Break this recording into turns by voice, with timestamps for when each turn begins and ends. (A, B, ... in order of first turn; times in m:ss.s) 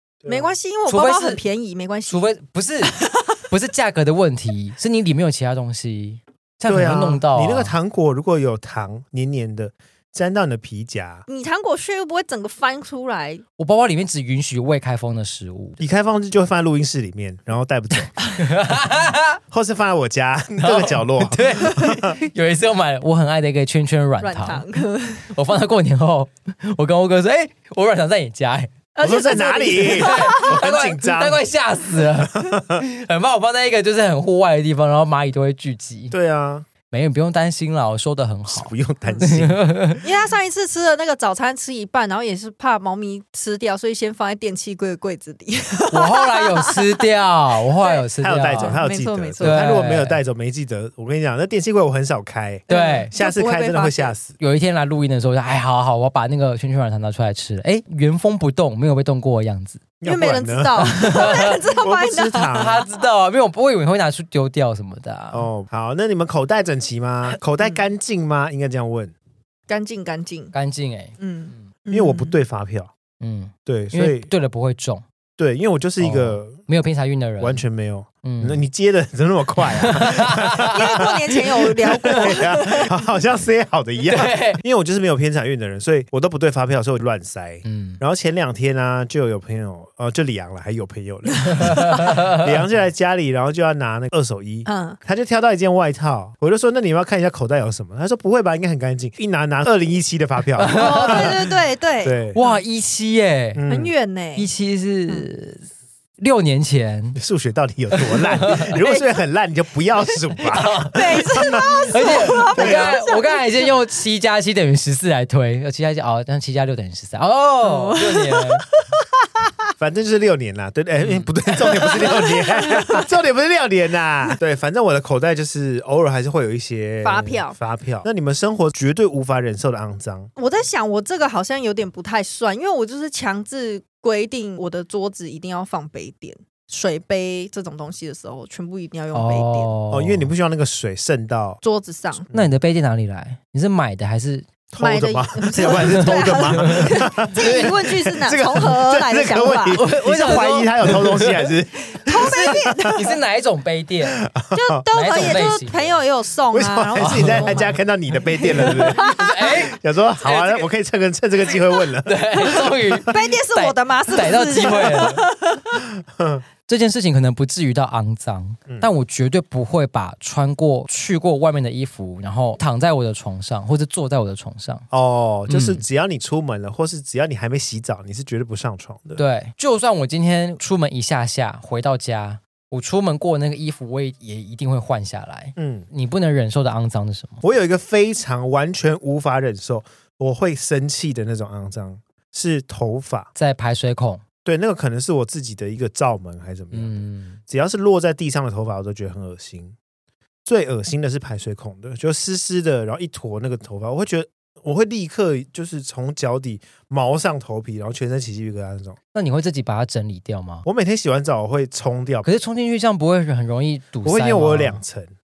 0:00.2-0:00.5 A
0:00.2-0:02.3 B
0:00.9-0:01.4 C
0:02.1-0:03.0 C
0:02.8-0:03.4 B
0:03.5-0:07.7 C
0:06.7-0:11.2 A
0:11.3-0:13.4 B
0:13.6-0:15.8 C
0:15.8-0:18.2 A
0:18.4-0:19.4 C
0:19.5-0:22.2 A
0:20.6-0:24.6 C
0:24.2-0:25.3 B
0:25.3-0:28.8 C
0:29.0-0:30.6 B
0:29.0-0:31.4 A
0:29.9-0:36.1 C
0:32.2-0:32.8 A
0:36.1-0:36.7 A
0:36.9-0:40.0 C
0:38.5-0:39.6 A
0:40.0-0:47.1 B
0:45.9-0:48.8 C
0:47.7-0:49.7 B
0:48.2-0:54.3 A
0:49.4-0:50.2 C
0:52.7-0:53.1 C
0:52.7-0:54.1 B
0:54.4-0:59.8 C
1:00.0-1:02.8 A
1:00.0-1:02.9 B
1:01.0-1:01.6 C
1:02.5-1:05.5 C
1:05.3-1:09.1 A
1:09.7-1:10.5 B
1:10.5-1:11.6 C
1:11.2-1:12.4 B
1:11.9-1:12.9 A
1:13.2-1:15.0 C
1:13.6-1:14.3 A
1:15.4-1:16.6 A
1:16.0-1:17.6 C
1:17.4-1:41.4 A
1:18.2-1:18.6 C
1:19.7-1:21.2 C
1:20.7-1:22.9 B
1:21.9-1:22.4 C
1:24.1-1:24.6 C
1:27.6-1:28.0 C
1:31.6-1:32.5 C
1:34.6-1:35.0 B
1:40.6-1:41.4 C
1:40.7-1:42.6 B
1:42.0-1:42.4 A
1:42.3-1:43.6 C
1:43.5-1:43.9 A
1:43.7-1:44.5 B
1:44.4-1:45.6 C
1:46.2-1:47.2 C
1:47.1-1:53.0 A
1:48.0-1:48.7 C
1:48.8-1:49.2 B
1:50.5-1:58.6 C
1:50.9-1:53.7 B
1:57.6-1:58.6 B
1:59.8-2:10.3 A
2:02.0-2:03.0 B
2:07.0-2:07.6 B
2:10.4-2:19.7 B
2:19.1-2:20.3 C
2:19.9-2:21.6 A
2:21.6-2:22.2 B
2:22.3-2:24.5 C
2:24.7-2:32.8 A
2:24.8-2:30.5 B
2:25.6-2:27.7 C
2:29.7-2:31.5 C
2:31.9-2:33.2 B
2:32.1-2:34.2 C
2:34.1-2:34.8 A
2:34.5-2:37.7 B
2:34.9-2:36.0 C
2:36.5-2:42.5 A
2:37.0-2:37.7 C
2:38.6-2:39.6 B
2:38.6-2:40.7 C
2:42.0-2:45.2 C
2:42.4-2:45.8 B
2:46.1-2:46.4 A
2:46.7-2:54.8 C
2:54.9-2:59.2 A
2:55.5-2:55.8 C
2:59.2-3:07.4 C
3:05.6-3:05.9 A
3:07.4-3:13.3 A
3:13.3-3:14.2 C
3:14.4-3:19.7 A
3:16.7-3:17.4 C
3:20.4-3:29.0 A
3:29.1-3:30.6 C
3:30.6-3:32.3 A
3:32.2-3:34.8 C
3:34.0-3:35.1 A